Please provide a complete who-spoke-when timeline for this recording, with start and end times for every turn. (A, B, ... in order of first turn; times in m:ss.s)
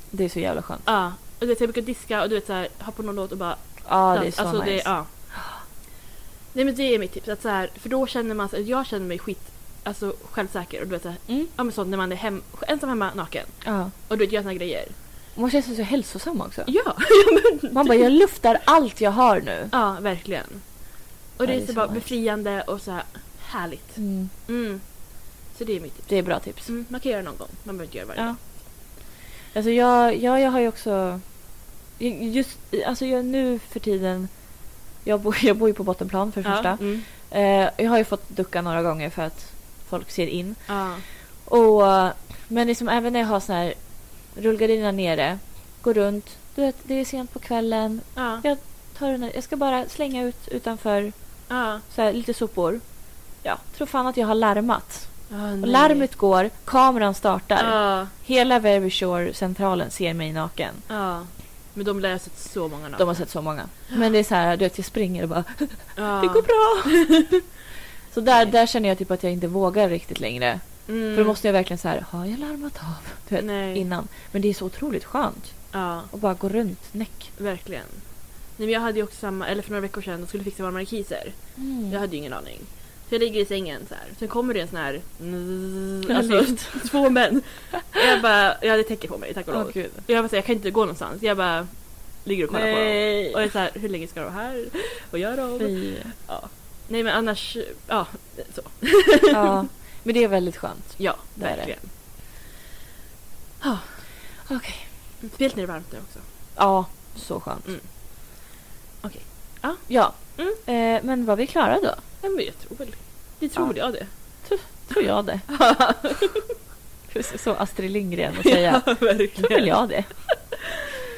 0:00.1-0:00.8 A
0:00.8-0:05.1 B
0:03.8-0:05.6 A
0:06.5-0:15.0 B
0:13.6-0:13.9 A
0:15.3-0:16.7 A
0:16.6-0:18.1 B
0:17.7-0:19.7 A
0:19.7-0:28.4 B
0:21.4-0:22.2 A
0:24.0-0:24.3 A
0:26.1-0:26.7 A
0:29.5-1:00.8 A
0:36.4-0:37.1 B
0:40.7-0:41.0 B
0:48.1-0:48.4 B
0:51.5-0:51.8 B
0:55.3-0:56.1 B
0:57.6-0:58.1 B
1:00.9-1:03.3 B
1:03.0-1:07.5 A
1:06.0-1:07.4 B
1:08.1-1:17.3 A
1:10.8-1:11.4 B
1:13.4-1:13.8 B
1:15.7-1:16.1 B
1:17.4-1:39.5 B
1:21.6-1:22.0 A
1:26.1-1:26.9 A
1:29.5-1:30.0 A
1:32.5-1:33.5 A
1:35.6-1:36.1 A
1:39.3-1:41.8 A
1:41.0-1:42.2 B
1:43.6-1:44.0 B
1:44.4-1:44.9 A
1:45.2-1:46.2 B
1:46.5-1:47.8 A
1:49.0-1:50.6 B
1:49.9-1:52.0 A
1:52.2-1:55.0 B
1:53.6-1:55.6 A
1:55.5-1:56.5 B
1:57.1-2:00.3 A
1:58.3-2:00.2 B